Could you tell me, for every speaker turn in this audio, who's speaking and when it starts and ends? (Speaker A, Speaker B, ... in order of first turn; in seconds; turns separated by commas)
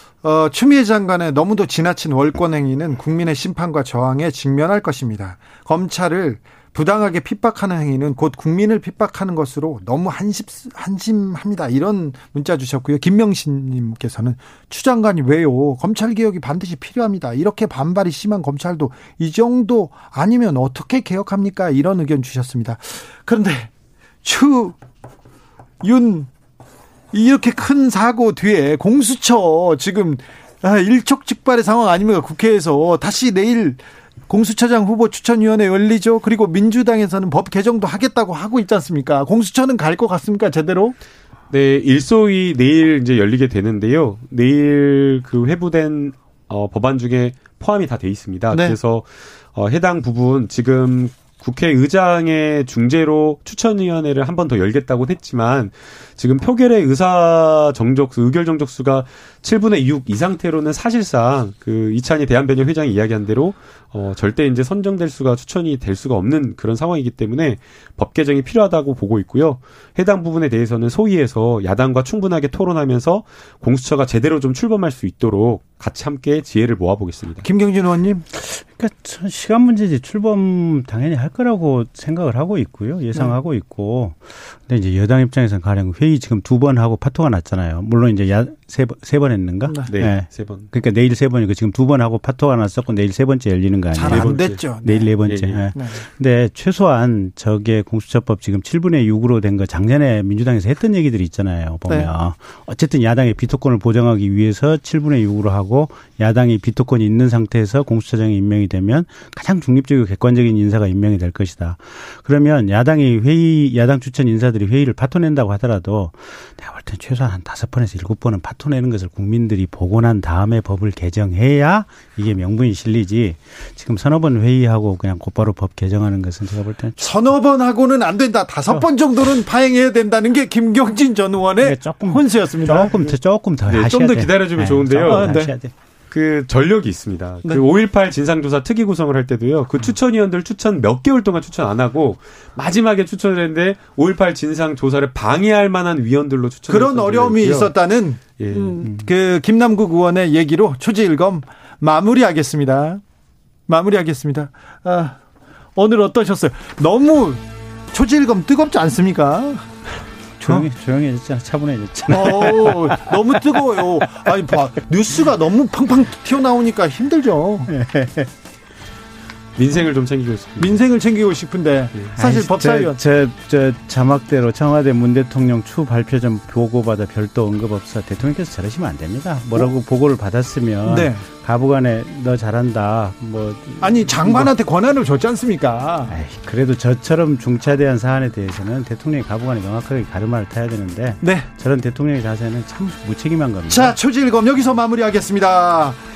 Speaker A: 0.2-23.7, Speaker A: 24.2-24.8, Speaker A: 25.8-26.3, Speaker A: 27.1-41.0, Speaker B: 41.5-77.5, Speaker A: 48.5-48.8, Speaker A: 77.4-78.2, Speaker C: 78.3-127.0, Speaker B: 89.8-90.7, Speaker A: 93.9-95.1, Speaker B: 94.1-94.7, Speaker B: 95.2-95.6, Speaker A: 127.0-133.1, Speaker C: 131.6-135.7, Speaker B: 133.7-135.4, Speaker A: 135.1-135.5, Speaker B: 136.1-147.7, Speaker A: 146.7-153.0, Speaker B: 148.3-148.8, Speaker A: 153.7-155.2, Speaker A: 155.8-159.7, Speaker C: 160.4-163.6, Speaker A: 162.1-167.7, Speaker C: 167.7-168.3, Speaker B: 169.6-170.8, Speaker A: 170.6-173.0, Speaker C: 172.1-184.5, Speaker A: 180.8-181.2, Speaker A: 183.8-186.2, Speaker C: 186.1-193.9, Speaker A: 191.2-191.5, Speaker A: 193.7-196.0